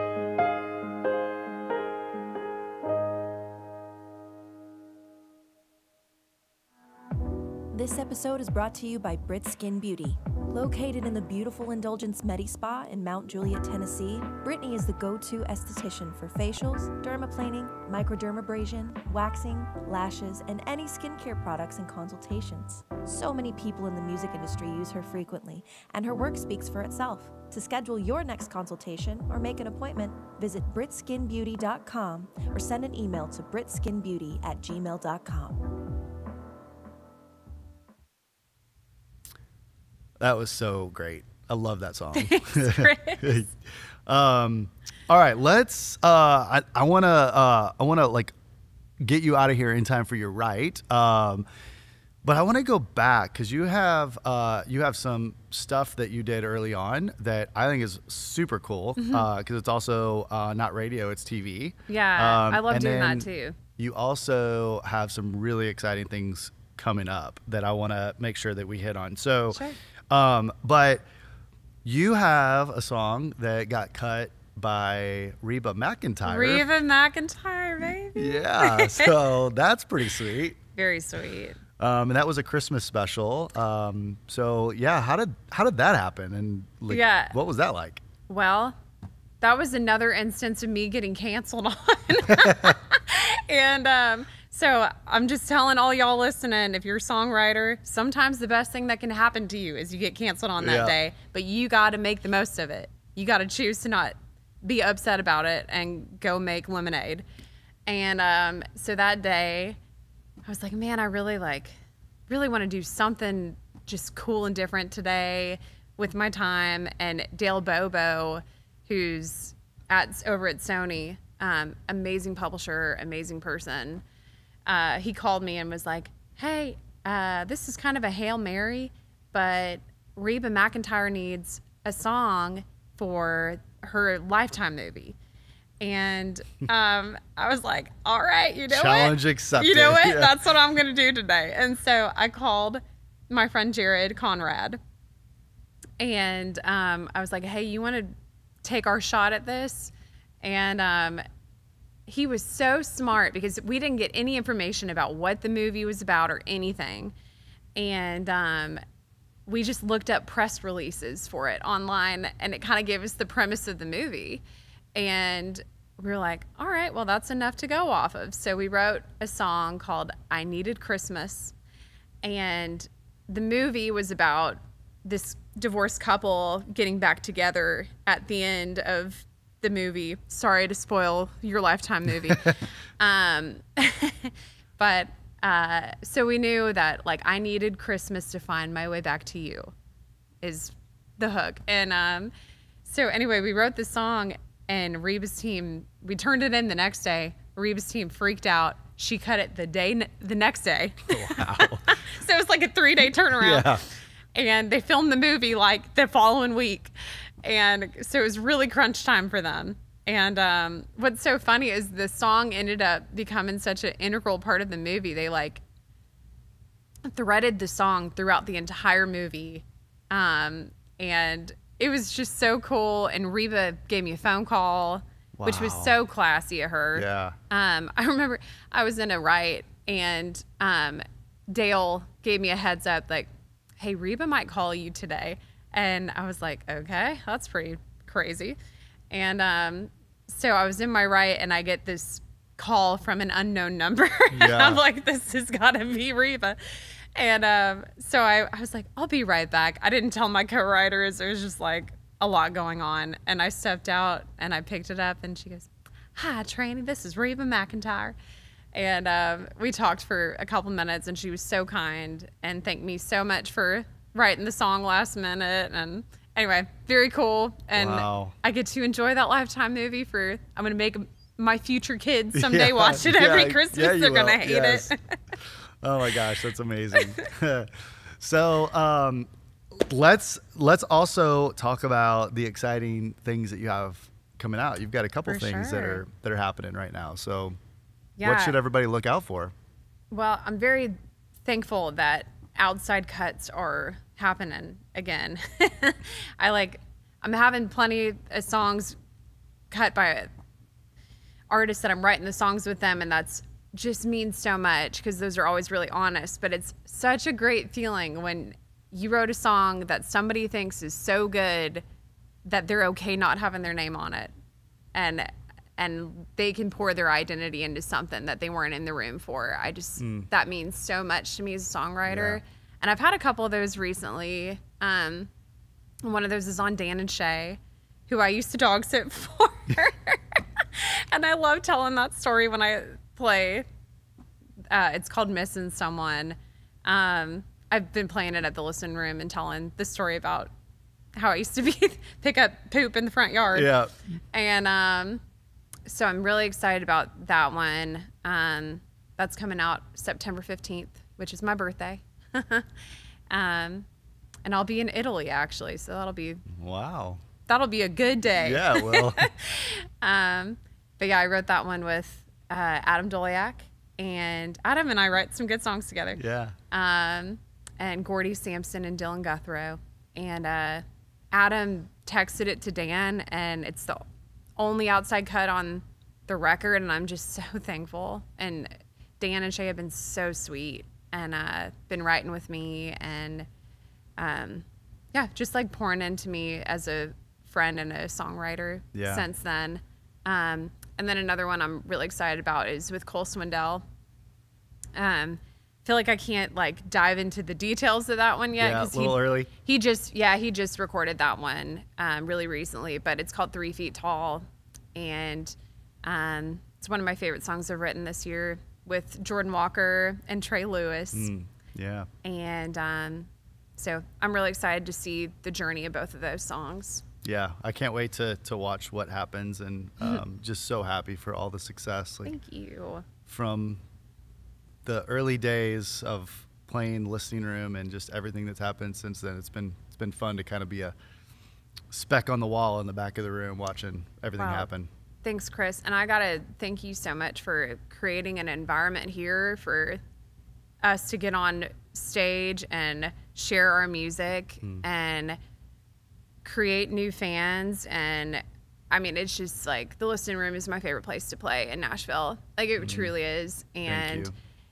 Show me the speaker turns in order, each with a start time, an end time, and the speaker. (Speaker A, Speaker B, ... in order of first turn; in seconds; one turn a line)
Speaker A: 7.7-35.6
Speaker B: 40.2-48.3
Speaker C: 42.1-43.4
Speaker B: 49.0-51.5
Speaker B: 52.2-71.0
Speaker C: 59.0-59.2
Speaker C: 61.9-63.6
Speaker B: 71.8-76.7
Speaker C: 76.2-79.1
Speaker B: 78.1-80.6
Speaker C: 80.7-81.6
Speaker B: 81.8-88.0
Speaker C: 86.9-87.3
Speaker C: 88.3-88.8
Speaker C: 89.4-107.2
Speaker B: 92.3-92.7
Speaker B: 100.6-101.0
Speaker C: 107.9-109.8
Speaker C: 110.4-111.7
Speaker C: 112.3-124.0
Speaker C: 124.7-135.2
Speaker C: 135.8-144.8
Speaker B: 138.7-140.3
Speaker C: 146.0-151.2
Speaker C: 152.1-157.1
Speaker C: 157.8-158.8
Speaker C: 159.5-164.4
Speaker C: 164.9-171.5
Speaker C: 172.2-189.7
Speaker C: 190.4-192.3
Speaker C: 192.8-206.9
Speaker B: 201.1-201.9
Speaker B: 203.4-203.8
Speaker C: 207.4-215.6
Speaker C: 217.0-238.6
Speaker B: 225.4-225.9
Speaker B: 226.9-227.3
Speaker C: 239.1-246.6
Speaker B: 244.3-244.8
Speaker C: 247.1-258.1
Speaker C: 258.7-275.1
Speaker B: 267.7-268.3
Speaker B: 272.3-274.9
Speaker B: 275.8-287.6
Speaker C: 276.9-277.3
Speaker C: 285.3-286.0
Speaker C: 288.2-288.6
Speaker B: 288.2-289.5
Speaker C: 290.1-298.9
Speaker C: 299.7-300.3
Speaker C: 301.5-311.8
Speaker C: 312.4-314.3
Speaker C: 314.9-325.3
Speaker B: 320.0-320.3
Speaker B: 322.1-322.4
Speaker C: 326.0-333.6
Speaker C: 334.7-340.5
Speaker C: 341.1-343.7
Speaker B: 343.5-343.9
Speaker C: 344.3-345.2
Speaker C: 345.9-352.7
Speaker C: 353.3-353.9
Speaker C: 354.4-356.4
Speaker B: 356.5-357.2
Speaker C: 357.5-366.2
Speaker B: 358.4-359.3
Speaker B: 366.2-366.6
Speaker C: 366.7-374.0
Speaker C: 374.6-383.5
Speaker C: 384.2-393.8
Speaker B: 388.9-389.2
Speaker C: 394.9-411.3
Speaker B: 398.6-399.5
Speaker B: 411.1-412.1
Speaker C: 412.2-417.0
Speaker B: 417.2-422.3
Speaker C: 422.2-423.1
Speaker B: 423.2-423.8
Speaker B: 424.8-430.9
Speaker B: 431.9-434.9
Speaker C: 434.4-434.7
Speaker C: 435.2-440.0
Speaker C: 440.8-445.4
Speaker C: 446.4-454.3
Speaker B: 452.8-453.1
Speaker B: 453.9-454.3